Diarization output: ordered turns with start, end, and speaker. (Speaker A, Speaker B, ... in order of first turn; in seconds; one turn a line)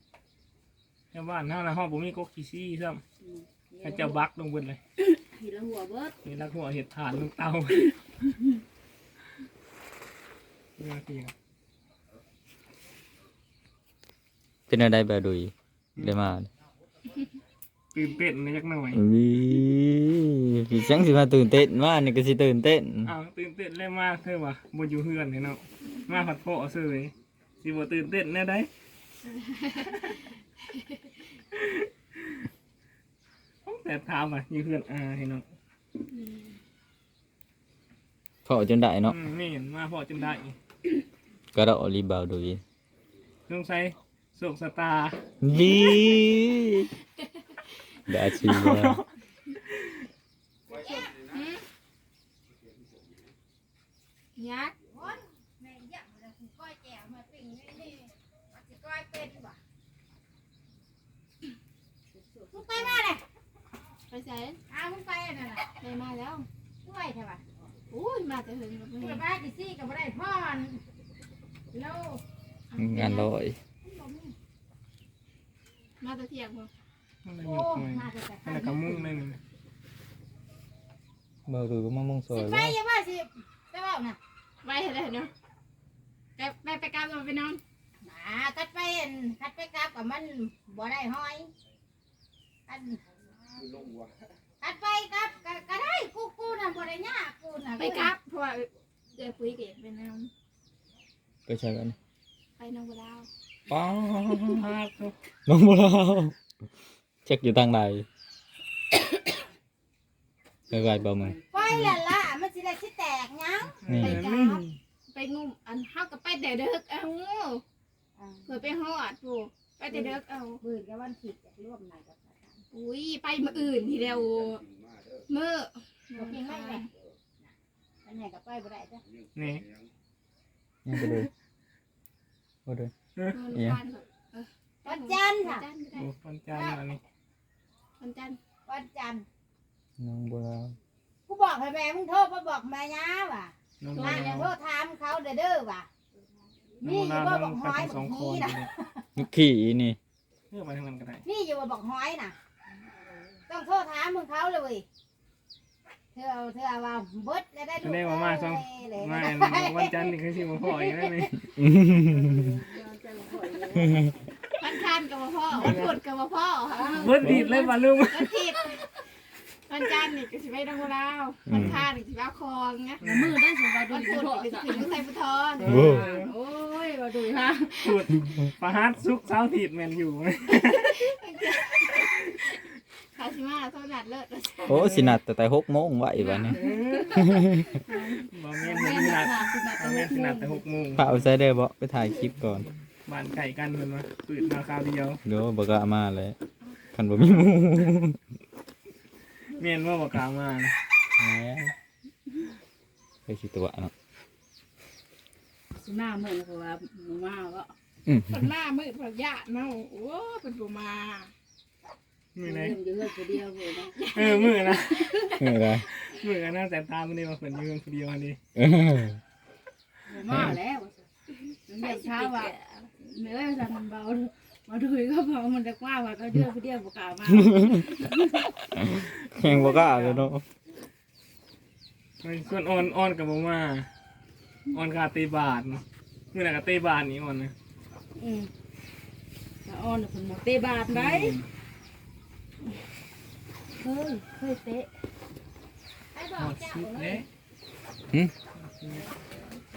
Speaker A: 1.1-3.0
Speaker B: 3.2-4.2
Speaker A: 3.8-4.8
Speaker B: 5.0-6.1
Speaker A: 6.2-8.2
Speaker A: 10.8-11.3
Speaker C: 14.7-16.5
Speaker A: 17.9-19.0
Speaker C: 18.9-23.1
Speaker A: 23.1-28.7
Speaker D: 29.4-30.0
Speaker A: 31.5-31.9
Speaker A: 33.6-35.4
Speaker D: 36.1-36.6
Speaker C: 38.4-39.2
Speaker A: 39.1-40.6
Speaker C: 41.5-42.6
Speaker A: 43.5-45.2
Speaker C: 45.4-46.9
Speaker C: 48.1-49.0
Speaker A: 48.4-49.1
Speaker E: 50.8-51.1
Speaker D: 51.3-51.6
Speaker D: 54.4-54.7
Speaker E: 54.9-59.6
Speaker B: 62.1-63.0
Speaker E: 62.5-63.2
Speaker D: 64.1-64.6
Speaker E: 64.7-65.7
Speaker D: 65.7-66.5
Speaker E: 66.8-67.4
Speaker D: 67.9-69.2
Speaker E: 69.0-70.8
Speaker E: 71.7-72.2
Speaker D: 72.7-73.3
Speaker C: 72.8-73.6
Speaker E: 73.8-74.3
Speaker D: 76.0-76.7
Speaker A: 77.2-79.4
Speaker E: 77.4-79.0
Speaker C: 81.5-82.8
Speaker E: 82.3-84.2
Speaker D: 84.6-85.3
Speaker D: 86.4-87.6
Speaker E: 88.0-91.5
Speaker E: 92.7-93.0
Speaker E: 94.6-98.1
Speaker D: 97.8-100.3
Speaker C: 101.5-101.9
Speaker D: 102.6-103.3
Speaker C: 103.7-104.7
Speaker A: 104.4-105.2
Speaker C: 105.5-106.3
Speaker C: 107.2-108.0
Speaker C: 110.7-111.3
Speaker B: 111.2-111.8
Speaker E: 111.5-114.6
Speaker A: 111.7-112.0
Speaker A: 113.7-114.8
Speaker C: 113.9-114.2
Speaker D: 114.0-114.5
Speaker D: 115.1-117.6
Speaker E: 118.2-118.7
Speaker D: 118.5-120.6
Speaker E: 119.9-122.6
Speaker D: 122.7-124.6
Speaker D: 125.3-126.9
Speaker E: 126.2-126.9
Speaker E: 128.0-129.0
Speaker A: 129.3-129.7
Speaker C: 130.8-131.3
Speaker C: 132.7-132.9
Speaker D: 133.3-136.1
Speaker C: 133.5-133.8
Speaker E: 134.8-135.7
Speaker A: 135.9-137.0
Speaker E: 136.5-136.8
Speaker D: 138.0-138.4
Speaker E: 138.7-139.2
Speaker C: 140.0-140.8
Speaker E: 141.3-145.9
Speaker A: 143.8-144.5
Speaker A: 146.8-148.7
Speaker E: 146.8-149.1
Speaker C: 149.2-150.0
Speaker A: 150.5-151.2
Speaker E: 151.2-152.3
Speaker E: 153.5-154.8
Speaker E: 156.1-161.3
Speaker A: 157.8-161.5
Speaker C: 161.6-162.3
Speaker B: 161.8-164.1
Speaker D: 164.5-169.0
Speaker A: 165.5-165.9
Speaker B: 166.7-167.5
Speaker A: 166.9-168.3
Speaker D: 169.7-173.0
Speaker C: 171.5-171.8
Speaker A: 173.0-173.4
Speaker B: 173.0-175.0
Speaker D: 173.9-175.8
Speaker A: 175.6-176.3
Speaker C: 175.6-176.1
Speaker B: 175.7-178.2
Speaker A: 177.8-181.0
Speaker D: 180.6-182.6
Speaker D: 183.1-184.9
Speaker C: 184.7-186.6
Speaker A: 184.8-185.2
Speaker D: 186.2-187.3
Speaker A: 186.6-187.3
Speaker C: 187.1-187.7
Speaker B: 187.8-190.6
Speaker A: 188.3-191.2
Speaker C: 191.0-192.7
Speaker A: 193.0-195.2
Speaker C: 195.2-196.4
Speaker C: 196.9-198.2
Speaker A: 199.5-200.7
Speaker C: 201.2-201.7
Speaker C: 203.3-203.9
Speaker B: 205.7-207.7
Speaker C: 208.1-208.5
Speaker D: 208.3-211.3
Speaker A: 212.3-212.8
Speaker B: 212.4-214.1
Speaker D: 214.0-215.6
Speaker A: 214.1-215.2
Speaker C: 215.4-215.8
Speaker A: 215.9-218.4
Speaker C: 218.6-219.2
Speaker B: 220.1-221.1
Speaker C: 220.3-220.6
Speaker B: 221.7-228.5
Speaker D: 221.7-222.9
Speaker C: 228.7-230.4
Speaker A: 229.4-229.8
Speaker B: 229.4-230.3
Speaker A: 232.2-233.9
Speaker A: 234.7-235.8
Speaker A: 236.3-237.5
Speaker B: 238.2-238.5
Speaker B: 239.6-241.4
Speaker A: 240.9-241.5
Speaker B: 243.8-244.9
Speaker E: 246.1-247.2
Speaker A: 246.4-247.3
Speaker A: 248.6-249.1